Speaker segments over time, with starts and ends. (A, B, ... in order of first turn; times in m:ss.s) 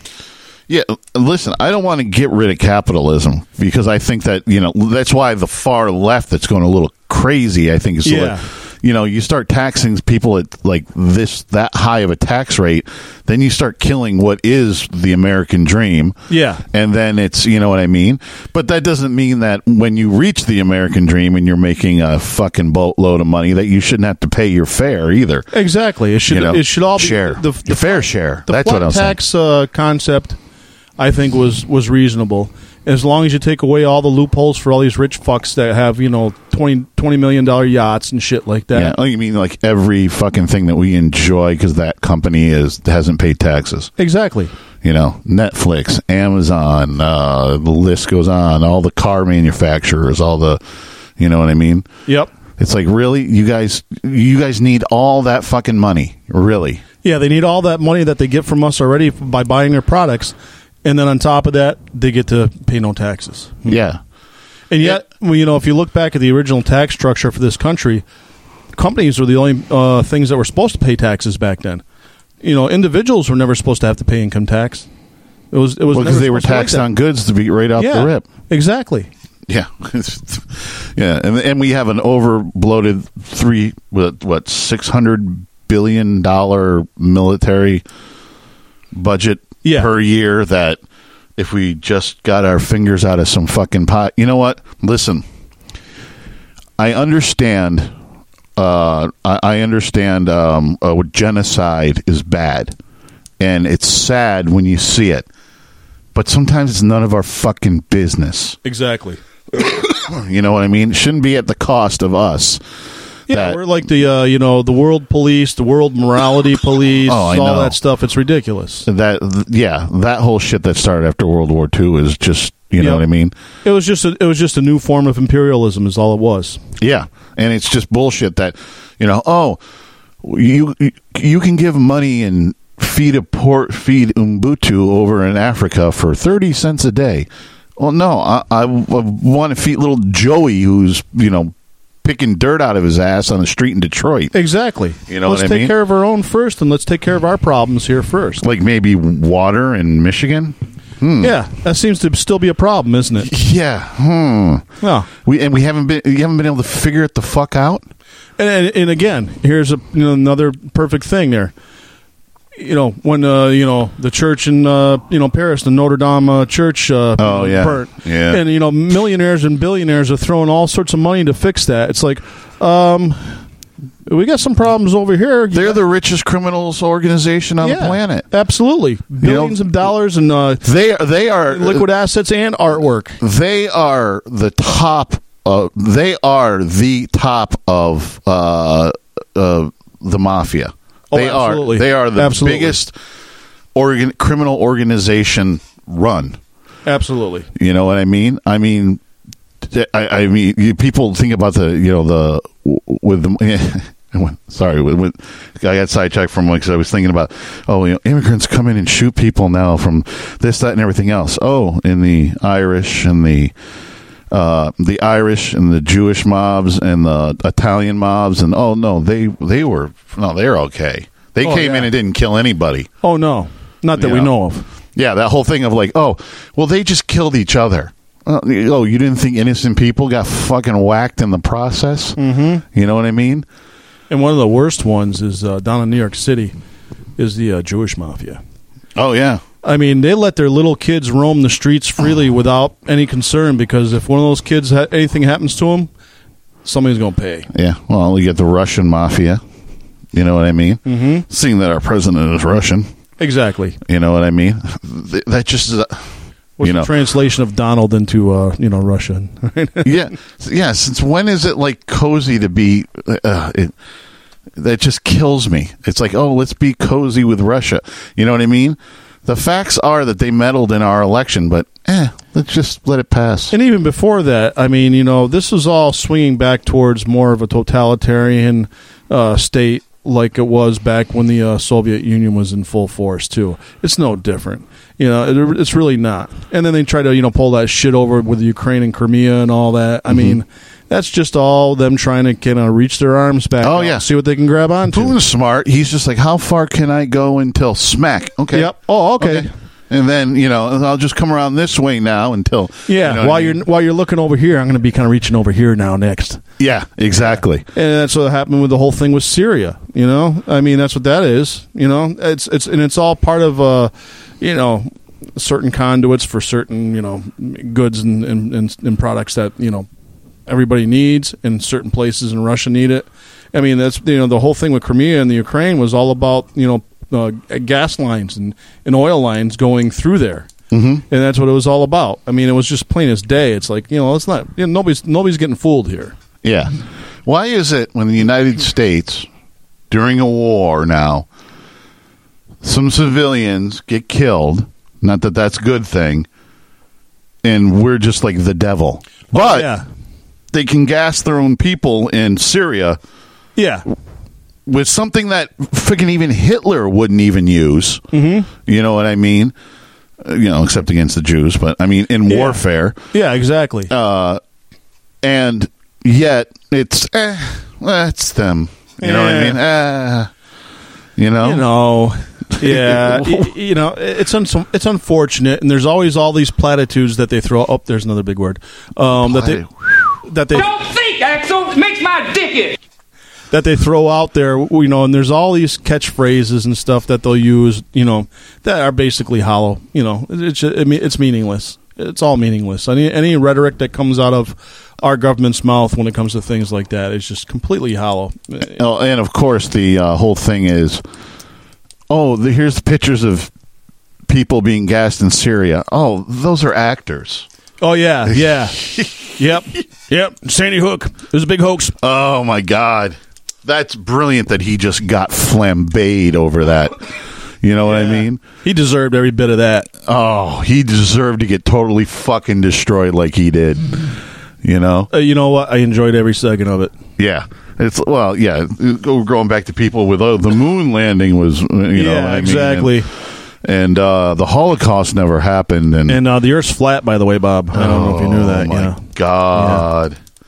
0:00.7-0:16.2 A
0:08.0-0:08.4 B
0:16.3-0:16.6 B
0:16.7-0:25.5 A
0:25.5-0:30.4 B
0:26.3-0:29.2 A
0:31.0-0:38.9 B
0:38.7-0:43.9 A
0:44.0-0:44.5 B
0:44.8-0:50.6 A
0:51.2-0:51.9 A
0:52.6-0:56.8 A
0:57.0-1:03.8 B
1:03.6-1:04.0 A
1:04.7-1:08.0 B
1:08.8-1:11.8 B
1:12.4-1:14.9 B
1:15.5-1:16.9 B
1:15.9-1:18.2 A
1:17.8-1:19.1 B
1:19.5-1:27.8 A
1:28.9-1:30.8 A
1:29.6-1:29.9 B
1:31.4-1:35.2 A
1:36.8-1:37.9 A
1:38.6-1:42.8 A
1:43.4-1:45.3 A
1:46.1-1:48.6 A
1:48.6-1:49.2 B
1:49.5-1:52.6 A
1:53.3-1:58.8 B
1:53.3-1:53.6 A
1:57.0-1:57.8 A
1:58.8-2:03.3 A
2:03.6-2:06.6 B
2:06.8-2:09.6 A
2:10.2-2:24.3 A
2:24.3-2:28.4 B
2:25.1-2:25.7 A
2:28.4-2:31.3 A
2:31.2-2:33.3 B
2:33.2-2:34.7 A
2:34.8-2:35.1 B
2:35.2-2:37.8 A
2:38.4-2:41.5 B
2:42.6-2:53.4 B
2:47.2-2:48.4 A
2:54.0-2:55.8 B
2:55.5-2:58.3 A
2:57.6-3:00.6 B
2:59.2-2:59.8 A
3:00.6-3:01.8 A
3:01.5-3:03.2 B
3:03.2-3:12.9 A
3:11.1-3:12.8 B
3:13.7-3:16.4 A
3:16.8-3:17.5 B
3:17.6-3:19.0 A
3:19.6-3:33.5 A
3:34.3-3:42.9 A
3:41.4-3:41.9 B
3:43.0-3:44.6 B
3:44.0-3:44.3 A
3:44.9-3:52.2 A
3:52.2-3:52.6 B
3:52.7-3:53.4 A
3:54.1-3:56.5 B
3:57.2-3:58.4 B
3:59.0-3:59.4 A
3:59.6-4:05.9 B
4:06.6-4:07.5 B
4:07.5-4:09.4 A
4:10.1-4:12.9 A
4:10.8-4:11.2 B
4:13.2-4:13.8 B
4:13.8-4:16.1 A
4:16.6-4:19.9 B
4:16.6-4:16.9 A
4:19.8-4:23.7 A
4:24.6-4:33.5 A
4:33.5-4:55.1 B
4:50.1-4:50.4 A
4:53.6-4:54.0 A
4:54.9-5:03.6 A
4:58.5-4:59.5 B
5:02.9-5:06.4 B
5:06.6-5:07.6 A
5:07.7-5:19.9 B
5:20.5-5:30.5 B
5:30.7-5:31.0 A
5:31.1-5:36.1 B
5:36.4-5:39.3 A
5:39.9-5:41.3 A
5:42.6-5:46.3 A
5:47.4-5:49.7 A
5:49.3-5:49.8 B
5:50.5-5:53.0 A
5:53.6-5:53.8 B
5:54.6-5:58.0 A
5:58.1-5:58.5 B
5:58.6-5:59.5 A
6:00.2-6:03.0 A
6:02.3-6:02.6 B
6:03.1-6:03.9 B
6:03.9-6:04.4 A
6:05.2-6:10.3 A
6:09.0-6:09.6 B
6:11.2-6:11.6 A
6:11.4-6:19.6 B
6:12.6-6:13.5 A
6:19.2-6:20.2 A
6:20.2-6:20.7 B
6:20.5-6:22.8 C
6:23.5-6:38.8 B
6:38.7-6:41.0 A
6:42.1-6:43.5 A
6:44.3-6:47.5 A
6:47.8-6:48.8 B
6:48.3-6:49.3 A
6:49.4-6:51.9 B
6:52.0-6:57.0 A
6:57.6-6:58.4 A
6:57.8-6:59.9 B
7:00.0-7:05.1 A
7:05.1-7:06.9 B
7:07.2-7:13.0 A
7:11.9-7:13.1 B
7:13.6-7:16.2 A
7:16.1-7:19.0 B
7:17.7-7:20.2 A
7:19.5-7:19.8 B